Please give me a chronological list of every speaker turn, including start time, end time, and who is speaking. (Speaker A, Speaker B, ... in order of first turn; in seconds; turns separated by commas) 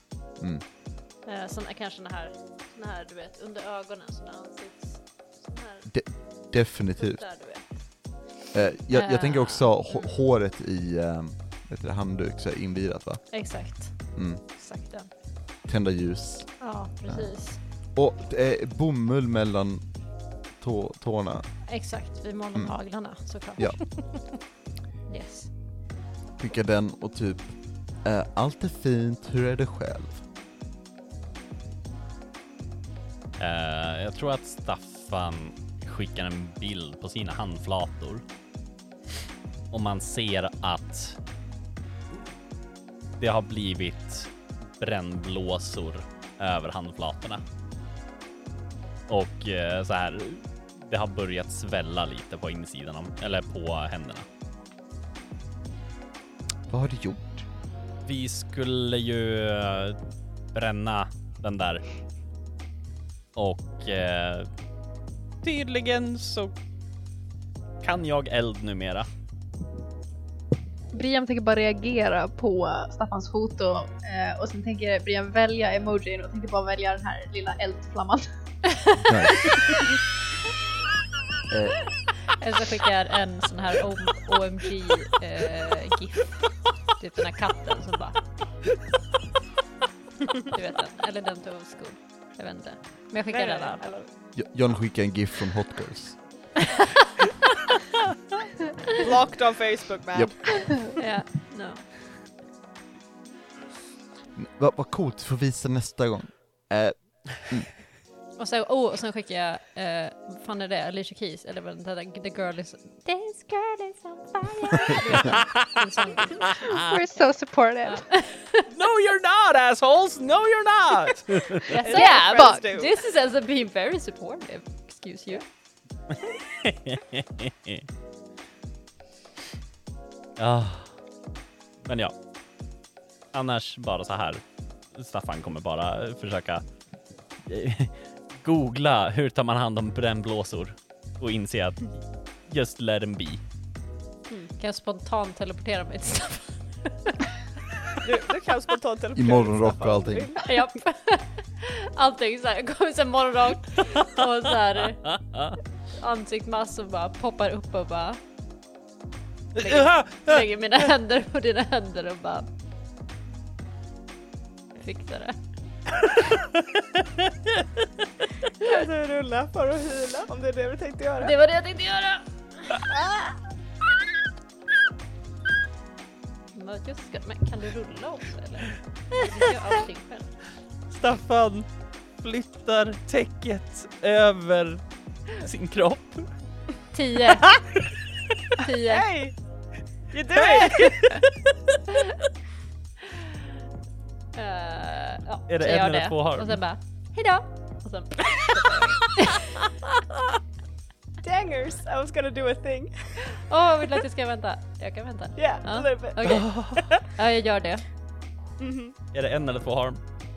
Speaker A: 0.4-0.6, Speaker B: 1.2-6.2, Speaker A: 5.9-7.3, Speaker B: 7.0-8.2, Speaker A: 8.5-14.4, Speaker B: 8.9-10.1, Speaker B: 13.3-15.1, Speaker A: 15.6-21.7, Speaker B: 16.6-17.6, Speaker B: 21.7-24.4, Speaker A: 22.6-24.3, Speaker B: 25.1-25.5, Speaker A: 26.4-30.3, Speaker C: 33.4-38.2, Speaker C: 39.7-41.2, Speaker C: 43.2-47.4, Speaker C: 49.1-54.3, Speaker A: 56.7-57.5, Speaker C: 58.0-60.0, Speaker C: 60.5-61.9, Speaker C: 63.4-64.5, Speaker C: 65.4-66.5, Speaker C: 67.8-69.1, Speaker D: 70.9-79.7, Speaker A: 79.0-79.5, Speaker A: 81.5-82.1, Speaker B: 82.3-88.3, Speaker B: 90.5-93.9, Speaker E: 93.3-94.1, Speaker A: 94.3-96.5, Speaker E: 98.9-100.7, Speaker A: 100.1-100.8, Speaker B: 101.0-101.8, Speaker A: 104.3-107.8, Speaker B: 108.4-116.8, Speaker C: 115.2-115.7, Speaker D: 116.7-118.1, Speaker B: 117.9-118.7, Speaker C: 118.7-121.7, Speaker B: 121.7-125.4, Speaker E: 121.8-123.0, Speaker D: 121.9-122.7, Speaker C: 126.6-127.8, Speaker C: 130.4-131.0, Speaker C: 131.8-132.1, Speaker C: 133.3-136.6, Speaker C: 137.4-143.4, Speaker B: 144.6-147.3, Speaker E: 148.0-150.5, Speaker A: 149.2-150.3, Speaker B: 150.4-155.2, Speaker C: 155.1-155.5, Speaker B: 156.0-158.2, Speaker C: 159.6-160.4, Speaker B: 159.6-162.5, Speaker B: 164.8-165.4, Speaker C: 166.3-167.6, Speaker E: 168.6-171.3, Speaker B: 171.2-172.8, Speaker E: 172.9-173.3, Speaker B: 176.5-180.4, Speaker C: 180.9-181.7, Speaker C: 182.2-186.3, Speaker B: 186.9-187.6, Speaker B: 188.6-189.1, Speaker E: 188.8-189.4, Speaker E: 190.1-191.2, Speaker C: 190.4-191.6, Speaker B: 194.3-199.4, Speaker C: 195.5-196.6, Speaker E: 198.3-198.9, Speaker E: 201.2-203.4, Speaker B: 203.2-207.8, Speaker E: 205.4-207.1, Speaker C: 206.2-206.8, Speaker E: 208.6-209.0, Speaker C: 209.1-210.0